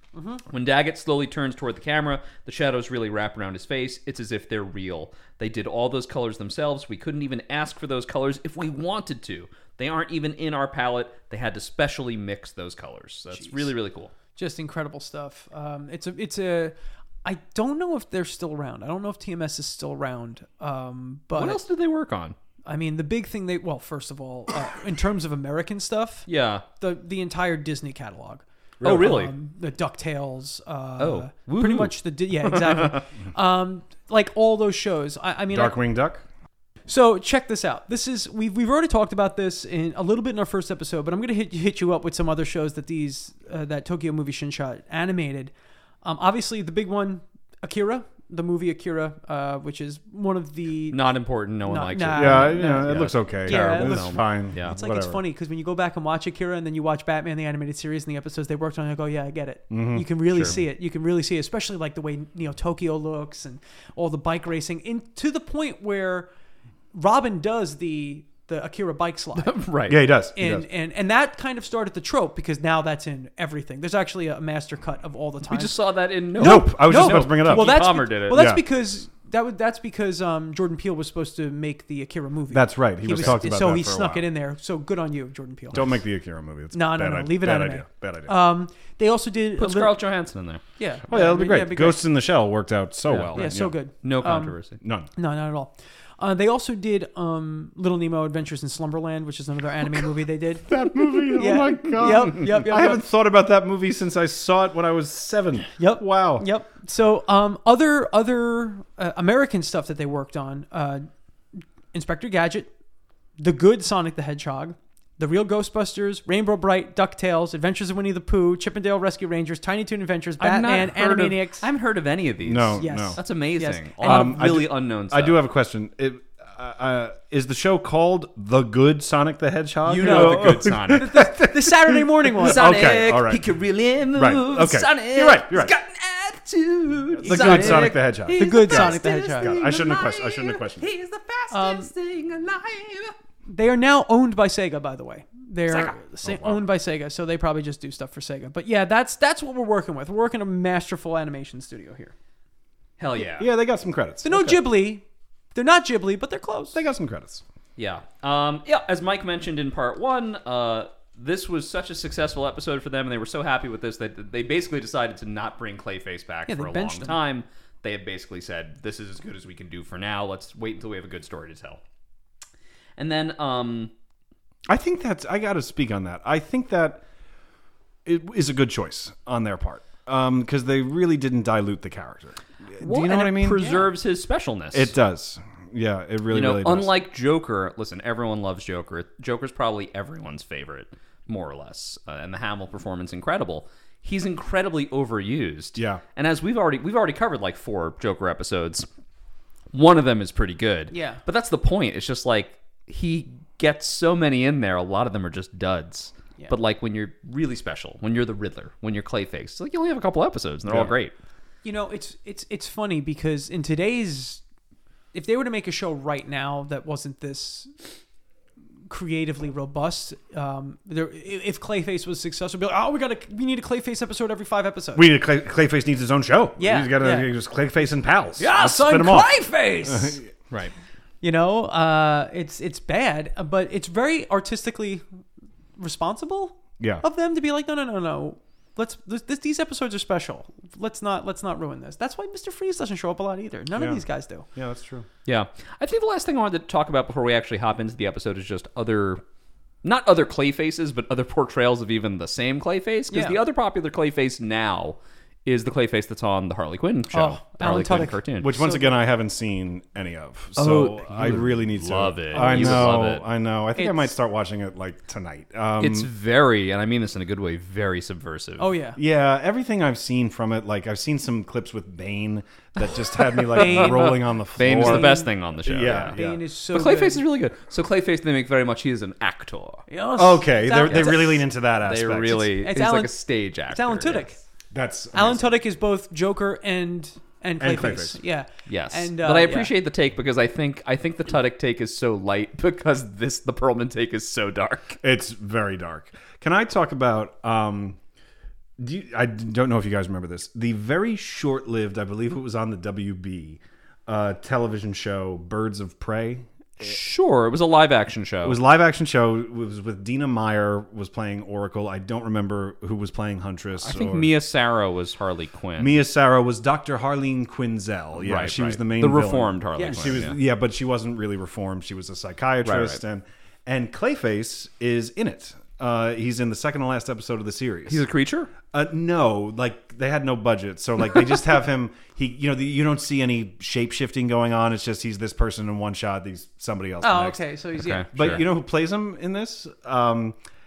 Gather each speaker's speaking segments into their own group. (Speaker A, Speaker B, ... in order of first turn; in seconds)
Speaker A: 0.1-0.4, 13.3-13.7, 14.3-21.6, 22.7-35.8, 36.9-45.5, 46.0-51.1, 51.7-66.3, 66.9-69.7, 70.3-75.8, 76.3-86.0, 86.7-90.0, 90.8-92.0, 93.3-94.6, 95.1-103.0, 105.8-111.1, 111.9-112.7, 113.4-121.7, 122.8-124.6, 130.0-132.9, 137.3-139.7, 141.5-141.9, 143.5-152.1, 154.2-155.0, 155.6-156.8, 166.5-167.2, 183.6-183.9, 200.9-201.2, 211.6-214.4, 215.1-217.7, 218.9-225.1, 226.6-227.3, 228.4-230.2, 231.2-235.0, 235.8-244.5, 253.1-253.4, 257.1-259.0, 262.3-263.0, 263.8-264.1, 268.6-269.0, 273.5-275.3, 276.1-277.2, 279.9-281.4, 282.3-283.2, 283.7-284.4, 285.1-289.7, 319.8-320.3, 337.0-338.1
Speaker B: 0.5-14.1, 21.4-22.4, 26.3-26.6, 28.8-29.3, 31.0-33.0, 50.9-54.8, 69.4-70.1, 75.5-78.6, 89.6-90.6, 93.0-93.5, 94.0-94.8, 120.4-125.4, 129.9-131.2, 132.4-143.2, 145.7-145.9, 153.0-153.5, 157.8-171.8, 173.0-173.9, 182.8-184.9, 186.3-198.9, 199.7-211.1, 245.2-249.2, 249.8-258.5, 260.6-263.2, 265.8-268.7, 273.5-276.2, 276.7-279.8, 280.9-284.3, 288.7-295.0, 306.8-308.6, 313.8-316.0, 318.2-320.4, 322.6-323.0, 327.9-328.5, 337.8-338.4
Speaker C: 28.8-29.1, 35.5-36.2, 52.1-55.2, 59.7-60.6, 69.9-70.7, 76.4-78.6, 82.5-84.3, 85.7-88.3, 91.1-93.7, 94.8-95.1, 100.6-106.5, 122.4-123.2, 124.0-133.4, 134.1-135.7, 137.2-140.9, 146.2-146.6, 153.3-154.6, 156.7-157.4, 174.7-177.0, 178.1-183.7, 184.7-186.9, 195.8-196.0, 210.7-210.9, 224.9-229.3, 229.8-230.3, 236.8-237.0, 243.8-245.1, 258.4-266.1, 269.0-276.4, 280.2-282.5, 284.7-285.6, 287.6-288.2, 295.0-298.0, 298.8-306.5, 308.4-314.3, 315.8-328.0, 328.7-337.4, 338.1-340.4